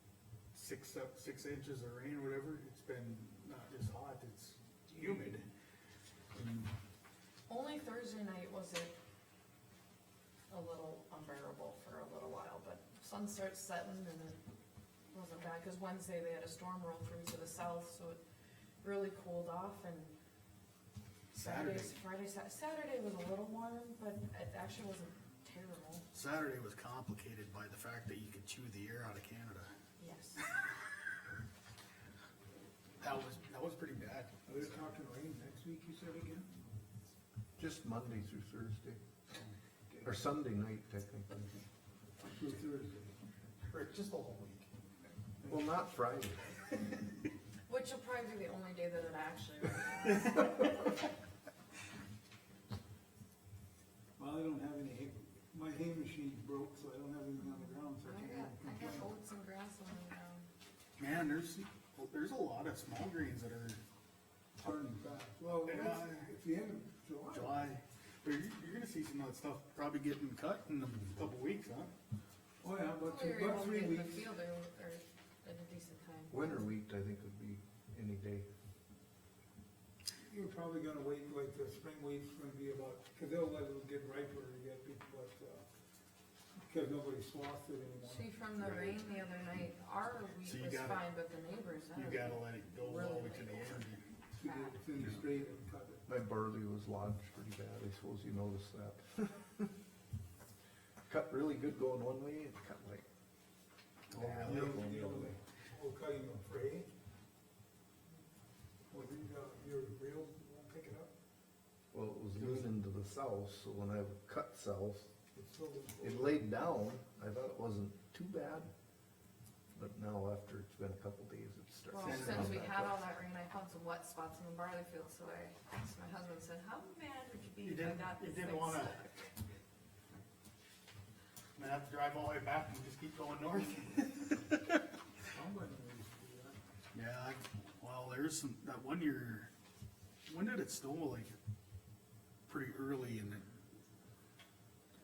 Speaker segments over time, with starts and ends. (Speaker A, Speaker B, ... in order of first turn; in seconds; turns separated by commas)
Speaker A: 0.5-5.5, Speaker A: 6.3-6.7, Speaker B: 7.5-9.0, Speaker B: 10.5-14.4, Speaker B: 15.1-18.2, Speaker B: 18.8-20.1, Speaker A: 21.3-22.0, Speaker B: 21.3-26.1, Speaker A: 26.1-29.7, Speaker B: 30.0-30.4, Speaker A: 33.0-34.8, Speaker C: 34.5-36.7, Speaker D: 37.6-39.0, Speaker C: 39.3-40.1, Speaker D: 40.0-41.5, Speaker C: 42.3-43.2, Speaker A: 43.6-44.7, Speaker D: 45.4-46.4, Speaker B: 47.7-50.8, Speaker C: 54.2-59.1, Speaker B: 58.0-60.5, Speaker A: 61.0-63.8, Speaker C: 64.6-67.7, Speaker A: 65.6-66.3, Speaker A: 67.3-71.9, Speaker C: 72.6-74.3, Speaker B: 73.0-76.6, Speaker D: 76.3-78.5, Speaker C: 80.2-85.7, Speaker C: 86.7-88.3, Speaker B: 88.1-94.8, Speaker D: 88.6-88.9, Speaker A: 90.4-91.1, Speaker A: 91.9-94.0, Speaker C: 94.3-96.1, Speaker D: 96.1-99.7, Speaker D: 101.1-103.0, Speaker A: 104.1-104.8, Speaker D: 104.1-105.3, Speaker C: 104.4-106.9, Speaker C: 108.9-111.1, Speaker D: 111.9-115.1, Speaker A: 112.4-112.7, Speaker C: 115.3-116.4, Speaker D: 116.0-118.7, Speaker D: 119.8-122.9, Speaker B: 121.9-129.3, Speaker A: 122.0-122.7, Speaker A: 127.6-129.1, Speaker A: 131.6-134.6, Speaker C: 135.3-136.6, Speaker A: 136.9-139.5, Speaker A: 140.3-141.3, Speaker A: 142.5-143.5